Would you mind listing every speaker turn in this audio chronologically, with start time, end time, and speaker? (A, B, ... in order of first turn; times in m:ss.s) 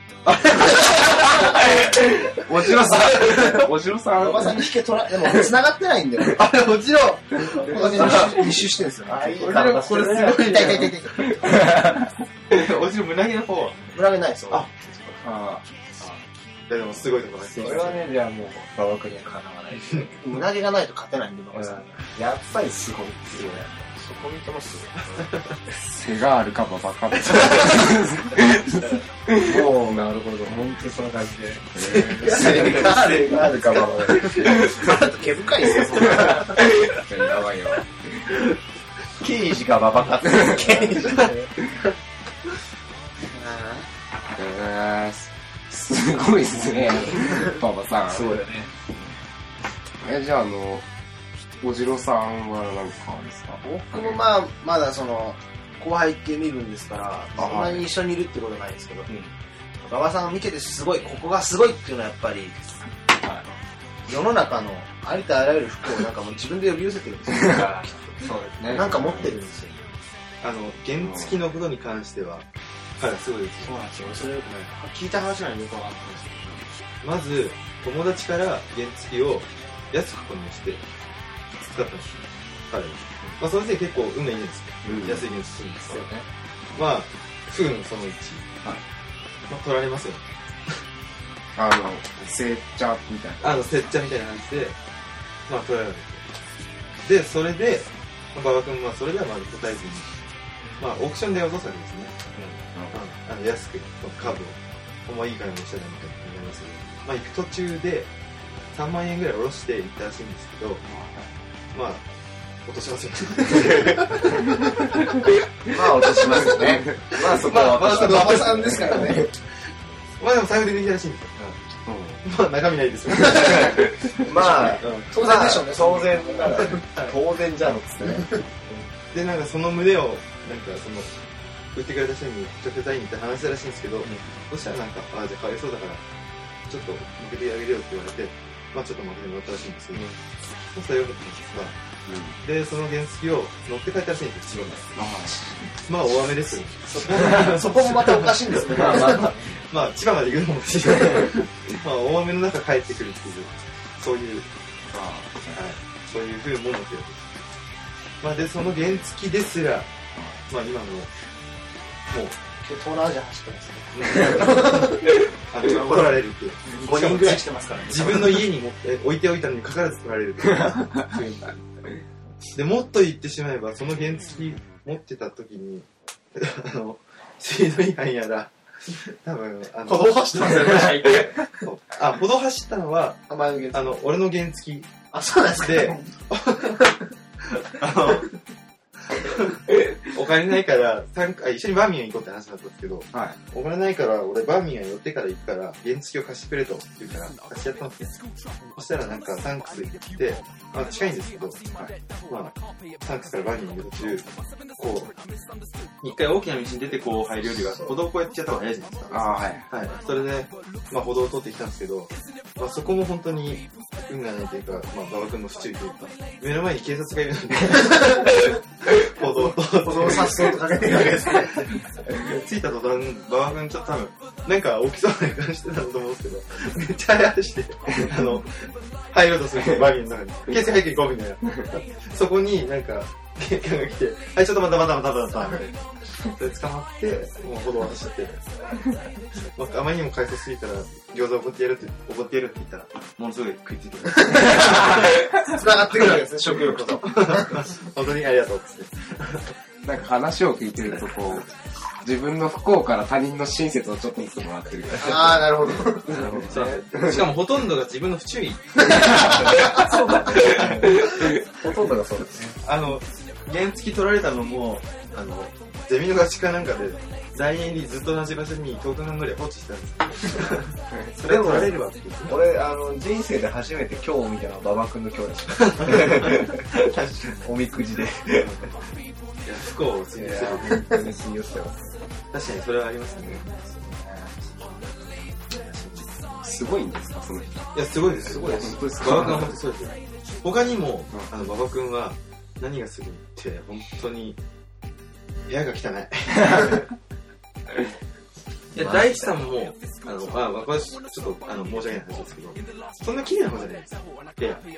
0:00.3-0:01.7 A
0:00.5-0:01.8 B
0:01.6-0:04.7 C
0:02.7-0:03.6 B
0:02.8-0:03.6 A
0:04.2-0:06.6 B
0:06.3-0:08.5 A
0:07.3-0:11.7 B
0:07.7-0:08.5 D
0:09.1-0:10.7 D
0:09.4-0:11.0 A
0:11.4-0:12.1 C
0:12.5-0:13.9 A
0:13.9-0:14.9 B
0:15.2-0:15.6 C
0:16.7-0:18.0 A
0:17.5-0:20.2 D
0:20.1-0:22.1 B
0:21.5-0:25.3 D
0:25.2-0:25.5 A
0:25.8-0:30.6 C
0:29.4-0:34.9 D
0:31.7-0:32.9 C
0:32.2-0:36.7 B
0:36.2-0:38.4 C
0:39.2-0:41.4 D
0:40.4-0:41.3 B
0:43.2-0:43.9 B
0:44.3-0:48.4 C
0:48.1-0:48.7 D
0:50.0-0:50.8 C
0:51.6-0:54.2 C
0:53.6-0:59.1 B
0:57.4-0:57.8 C
0:59.8-1:02.6 B
1:04.0-1:09.8 B
1:07.4-1:09.3 D
1:08.7-1:09.3 C
1:10.4-1:12.4 A
1:11.0-1:11.3 C
1:13.0-1:13.7 A
1:13.7-1:16.6 B
1:13.8-1:14.0 D
1:17.0-1:20.8 A
1:21.6-1:26.0 A
1:24.8-1:25.2 C
1:25.9-1:26.2 D
1:26.7-1:28.6 A
1:29.5-1:30.8 A
1:31.5-1:33.6 C
1:33.4-1:34.8 A
1:35.5-1:36.2 A
1:37.0-1:40.1 A
1:40.8-1:42.2 A
1:42.9-1:48.1 A
1:48.7-1:50.8 A
1:50.9-1:51.3 C
1:51.7-1:52.0 A
1:52.6-1:54.9 A
1:55.7-1:59.3 B
1:56.2-1:56.5 A
1:56.5-1:56.8 C
1:57.1-1:58.5 D
1:57.1-1:59.3 A
2:00.2-2:01.5 A
2:01.8-2:02.2 C
2:02.2-2:05.1 A
2:03.3-2:08.9 D
2:03.6-2:04.1 C
2:04.4-2:06.8 B
2:06.6-2:07.1 A
2:08.0-2:08.4 B
2:09.1-2:11.1 A
2:11.7-2:16.0 A
2:14.0-2:14.3 D
2:16.7-2:20.0 A
2:20.7-2:21.8 A
2:22.1-2:22.4 C
2:22.4-2:24.9 A
2:24.9-2:25.7 C
2:25.8-2:34.5 A
2:26.9-2:29.4 B
2:28.8-2:29.3 D
2:34.9-2:35.6 C
2:35.5-2:37.3 A
2:38.2-2:39.9 A
2:40.1-2:40.4 C
2:40.5-2:41.1 A
2:42.1-2:42.4 A
2:42.6-2:48.5 B
2:43.9-2:51.5 A
2:52.5-3:04.9 A
2:59.8-3:01.6 B
3:03.3-3:03.9 B
3:05.1-3:06.1 B
3:05.6-3:06.9 A
3:07.5-3:08.3 A
3:09.2-3:18.2 A
3:18.7-3:21.6 A
3:22.3-3:25.1 A
3:26.0-3:58.5 A
3:29.1-3:29.6 C
3:39.6-3:41.7 B
3:59.5-4:05.1 A
4:04.2-4:07.6 B
4:06.0-4:09.5 A
4:09.8-4:11.5 C
4:12.0-4:16.5 C
4:15.0-4:16.2 B
4:16.1-4:19.4 A
4:16.4-4:16.7 D
4:19.2-4:22.6 D
4:20.3-4:21.1 A
4:22.6-4:32.5 A
4:31.2-4:38.7 D
4:35.8-4:37.3 A
4:38.3-4:38.8 A
4:39.4-4:41.0 A
4:40.2-4:41.8 D
4:42.3-4:43.6 A
4:43.8-4:44.2 D
4:45.6-4:46.4 A
4:46.4-4:49.6 C
4:47.7-4:54.4 A
4:55.5-4:56.9 A
4:58.7-5:04.6 A